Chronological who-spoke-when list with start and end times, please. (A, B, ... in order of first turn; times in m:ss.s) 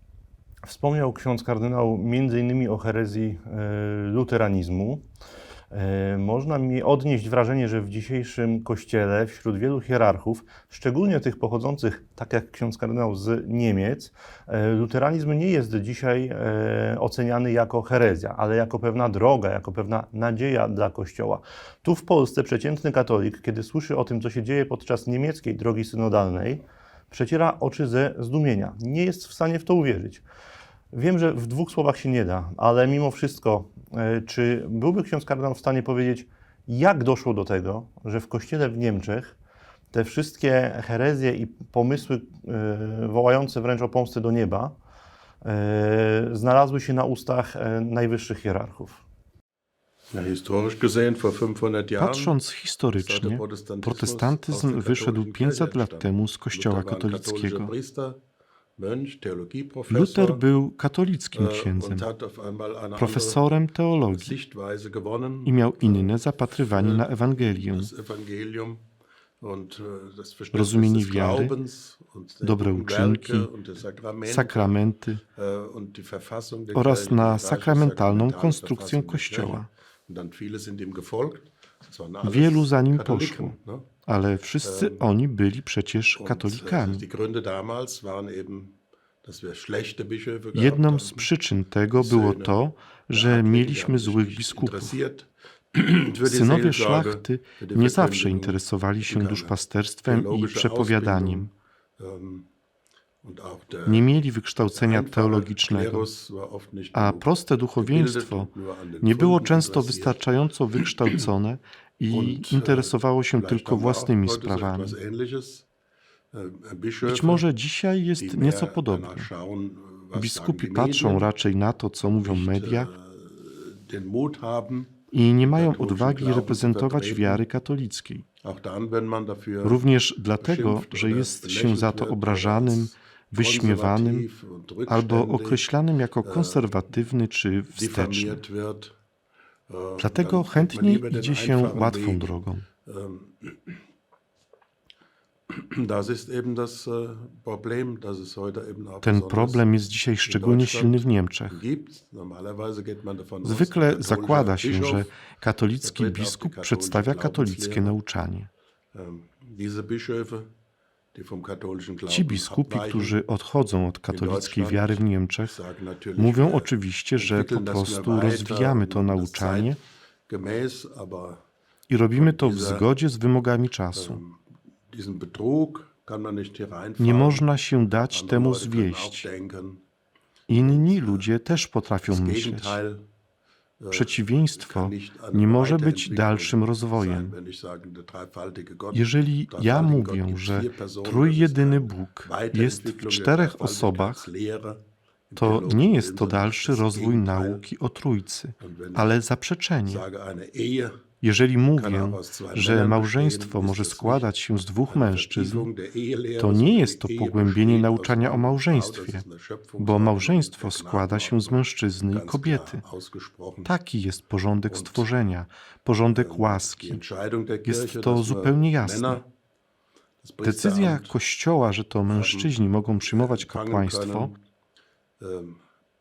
0:00.6-0:05.0 A
0:05.7-0:30.2 A
0:30.9-0:39.3 A
0:39.9-0:44.8 A
0:45.4-0:49.0 A
0:50.1-0:52.3 B
0:52.0-0:57.7 C
0:53.0-0:58.2 B
0:58.8-1:00.4 B
0:59.9-1:02.0 C
1:01.3-1:03.4 B
1:03.0-1:04.3 C
1:04.1-1:06.1 B
1:05.4-1:07.9 C
1:06.7-1:08.8 B
1:09.4-1:14.8 B
1:10.5-1:11.5 C
1:12.4-1:13.5 C
1:14.2-1:15.2 C
1:15.3-1:23.9 B
1:16.7-1:19.7 C
1:22.2-1:23.5 C
1:24.0-1:27.0 C
1:24.6-1:25.0 B
1:26.2-1:31.3 B
1:30.5-1:34.9 C
1:31.9-1:32.5 B
1:33.1-1:42.5 B
1:36.2-1:41.5 C
1:43.2-1:44.1 B
1:43.8-1:46.1 C
1:44.7-1:50.2 B
1:46.9-1:48.5 C
1:49.0-1:55.0 C
1:50.8-1:51.2 B
1:52.1-1:55.6 B
1:56.3-1:57.4 B
1:57.0-1:59.3 C
1:58.2-2:01.3 B
2:00.1-2:02.9 C
2:02.2-2:07.4 B
2:05.1-2:08.2 C
2:08.4-2:09.8 B
2:09.6-2:14.3 C
2:10.4-2:15.6 B
2:14.9-2:18.4 C
2:16.2-2:16.7 B
2:17.7-2:18.9 B
2:19.7-2:22.3 B
2:20.0-2:22.6 C
2:22.8-2:23.8 B
2:25.5-2:29.6 B
2:29.0-2:31.6 C
2:30.2-2:35.1 B
2:33.4-2:38.5 C
2:35.8-2:37.9 B
2:38.9-2:40.5 B
2:41.1-2:43.2 B
2:42.1-2:45.6 C
2:44.1-2:49.8 B
2:46.2-2:49.8 C
2:50.3-2:51.4 B
2:51.9-2:54.2 C
2:52.2-2:52.9 B
2:53.9-2:54.4 B
2:54.9-2:57.4 B
2:57.0-2:59.3 C
2:58.1-2:59.8 B
3:00.5-3:02.8 C
3:00.5-3:01.2 B
3:02.1-3:03.0 B
3:03.8-3:17.6 B
3:03.9-3:07.3 C
3:08.9-3:14.3 C
3:15.4-3:20.0 C
3:18.6-3:19.1 B
3:19.8-3:21.0 B
3:21.2-3:25.7 C
3:21.8-3:24.3 B
3:24.9-3:33.7 B
3:26.4-3:29.2 C
3:29.8-3:32.8 C
3:33.6-3:37.0 C
3:34.7-3:35.0 B
3:36.1-3:39.2 B
3:37.6-3:39.2 C
3:40.2-3:41.1 B
3:40.4-3:44.3 C
3:42.1-3:42.5 B
3:43.0-3:44.4 B
3:45.2-3:45.6 B